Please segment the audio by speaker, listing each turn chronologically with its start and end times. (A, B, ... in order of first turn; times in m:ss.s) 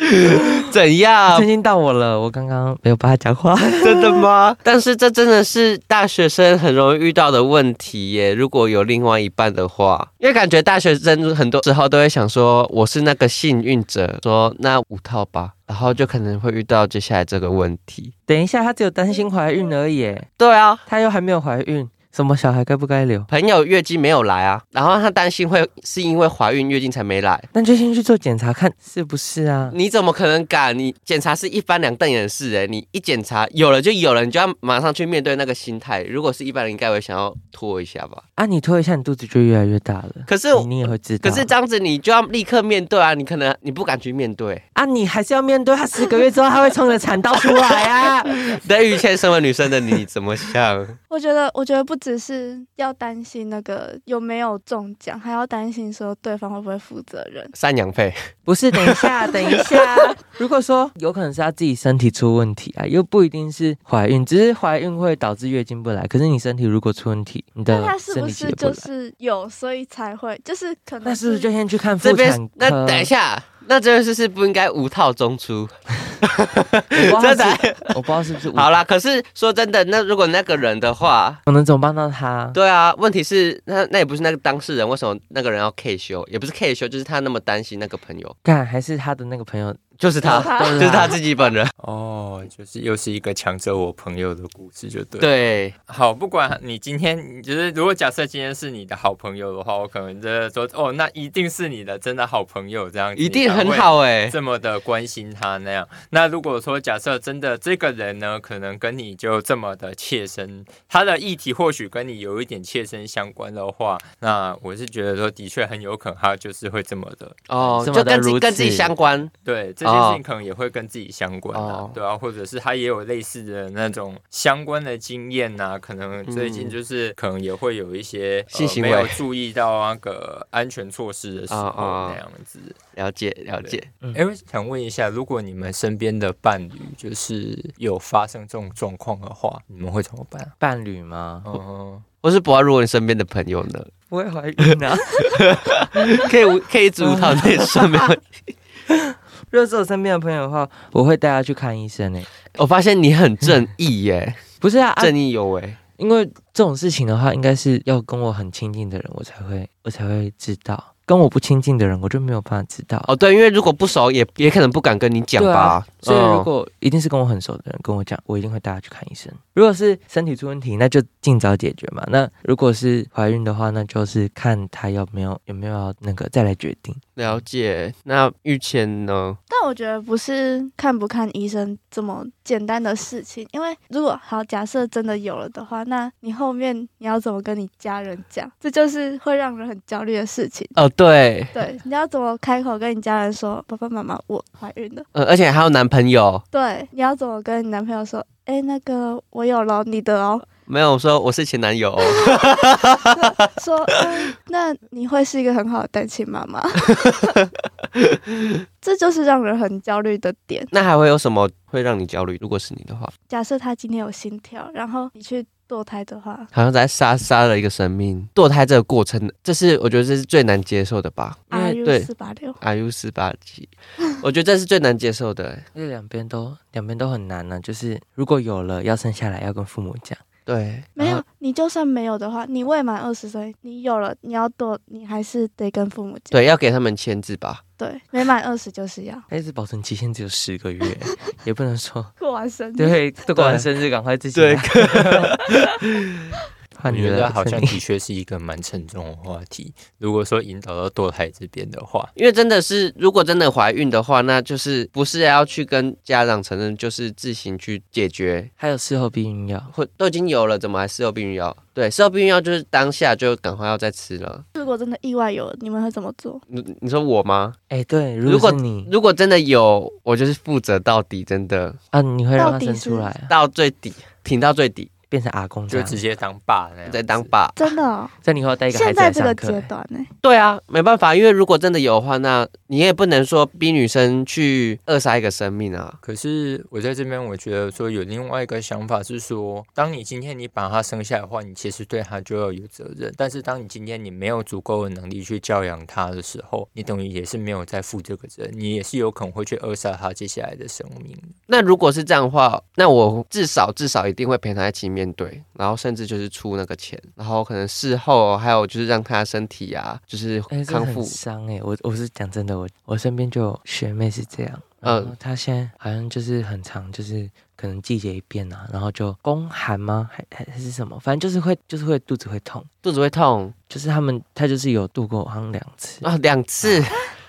0:00.2-0:01.5 A
0:01.3-0:04.2 B
0:03.8-0:18.1 A
0:18.3-0:20.3 B
0:20.4-0:20.8 A
0:20.9-0:23.3 B
0:23.3-0:27.5 A
0:27.5-0:29.8 B
0:29.7-0:38.2 A
0:38.4-0:41.5 B
0:40.3-0:44.6 A
0:44.8-0:48.4 B
0:48.5-0:51.0 A
0:51.1-0:57.5 C
0:57.6-0:58.2 A
0:58.5-1:08.9 B
1:07.7-1:11.5 C
1:11.0-1:13.1 B
1:12.0-1:18.0 A
1:17.0-1:18.7 B
1:18.5-1:21.4 A
1:21.5-1:22.6 B
1:22.5-1:28.4 A
1:28.4-1:31.2 B
1:30.0-1:31.7 A
1:30.2-1:31.2 C
1:31.8-1:35.3 D
1:35.2-1:35.7 A
1:35.9-1:57.9 D
1:43.2-1:44.4 A
1:57.5-1:59.3 A
1:57.8-1:58.9 B
1:59.4-2:12.8 D
1:59.8-2:00.2 A
2:01.5-2:02.0 A
2:06.3-2:06.8 A
2:08.5-2:09.2 A
2:11.5-2:12.2 A
2:13.0-2:13.9 A
2:13.6-2:20.5 D
2:20.6-2:21.4 B
2:21.4-2:22.0 D
2:22.2-2:23.9 A
2:24.1-2:25.4 B
2:25.7-2:28.2 A
2:27.0-2:28.1 B
2:28.9-2:32.3 B
2:32.6-2:34.4 A
2:34.6-2:35.2 B
2:35.0-2:35.8 A
2:36.0-2:43.1 B
2:43.1-2:46.5 A
2:45.4-2:57.0 B
2:57.2-2:59.4 A
2:59.5-3:10.8 C
3:10.8-3:11.6 A
3:11.5-3:15.1 C
3:15.2-3:16.4 A
3:16.5-3:20.5 C
3:20.7-3:23.3 A
3:22.1-3:22.4 C
3:23.6-3:27.2 C
3:28.8-3:30.7 C
3:30.7-3:33.1 A
3:33.3-3:36.5 C
3:36.5-3:42.1 A
3:41.5-3:42.6 C
3:41.5-3:41.8 B
3:42.6-3:45.6 A
3:45.8-3:50.2 B
3:50.5-3:51.2 A
3:51.0-3:56.4 C
3:56.3-3:57.6 A
3:57.8-3:59.3 C
3:59.3-4:02.1 B
4:02.2-4:03.0 C
4:02.8-4:05.4 B
4:03.4-4:03.7 A
4:04.4-4:05.7 A
4:06.8-4:07.8 B
4:06.9-4:12.1 D
4:12.2-4:18.5 A
4:18.6-4:19.7 B
4:19.7-4:24.4 A
4:24.5-4:26.4 C
4:26.5-4:27.6 A
4:27.7-4:28.9 B
4:28.2-4:31.8 A
4:31.9-4:33.3 B
4:32.4-4:33.1 C
4:33.3-4:34.9 A
4:35.1-4:36.0 B
4:35.7-4:37.3 D
4:36.9-4:37.6 A
4:37.6-4:38.1 C
4:38.2-4:39.7 B
4:38.7-4:40.1 C
4:40.2-4:46.0 A
4:46.0-5:01.4 D
5:01.5-5:11.2 A
5:10.5-5:22.7 B
5:14.8-5:15.2 A
5:22.8-5:23.5 A
5:23.7-5:26.1 B
5:26.0-5:27.1 A